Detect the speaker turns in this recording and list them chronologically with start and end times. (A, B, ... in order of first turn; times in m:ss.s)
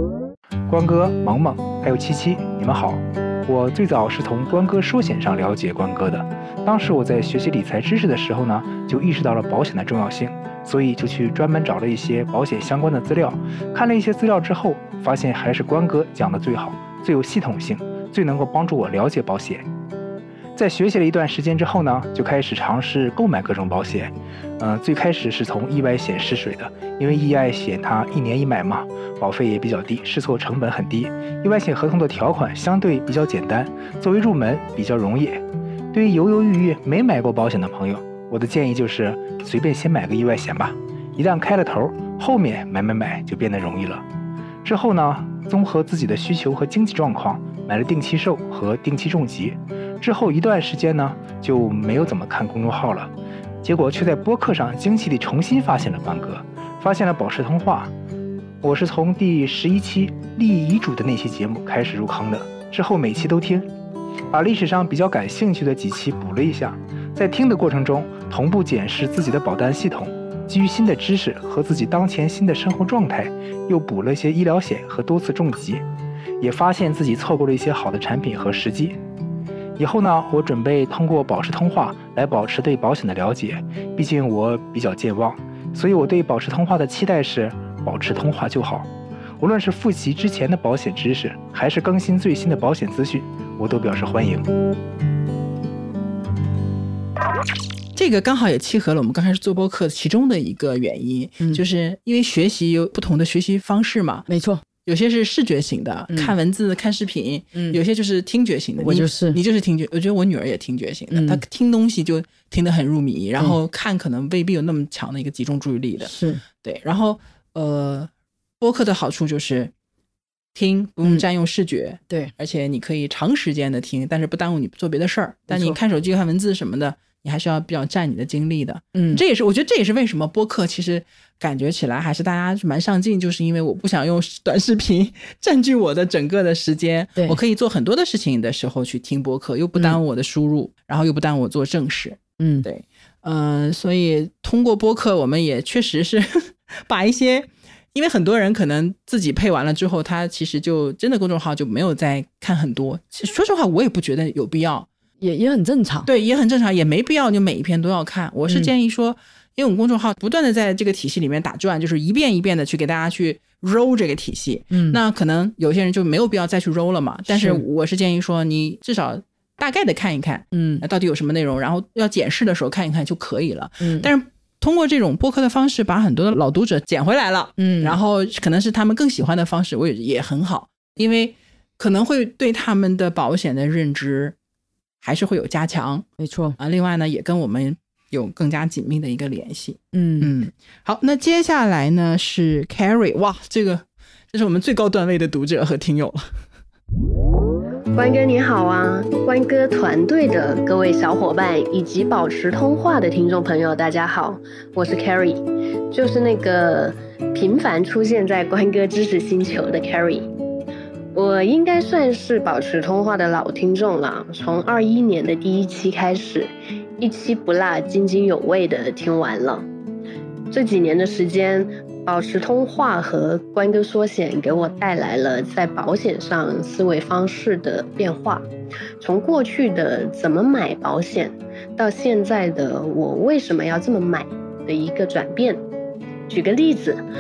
0:00.7-0:19.6 A
0:20.6-0:44.0 A
0:44.6-0:53.1 A
0:53.6-0:57.9 A
0:58.6-1:03.7 A
1:04.3-1:15.8 A
1:16.4-1:19.0 A
1:19.8-1:28.9 A
1:29.4-1:34.5 A
1:38.0-1:44.3 B
1:44.3-1:44.6 C
1:44.8-1:59.7 B
1:48.8-1:49.4 C
1:51.1-1:51.4 C
1:56.0-1:56.4 C
2:00.5-2:34.9 B
2:05.5-2:05.8 C
2:08.9-2:09.2 C
2:22.4-2:22.7 C
2:35.2-2:36.1 C
2:36.0-3:04.4 B
2:44.7-2:45.0 C
2:47.3-2:47.6 C
2:50.5-2:50.8 C
2:53.8-2:54.1 C
2:57.6-2:58.0 C
3:05.0-3:06.1 B
3:06.2-3:06.6 C
3:06.6-3:16.4 B
3:09.9-3:10.3 C
3:18.0-3:30.3 D
3:31.1-3:39.6 D
3:40.5-3:48.4 D
3:49.0-3:55.6 D
3:56.3-3:57.0 D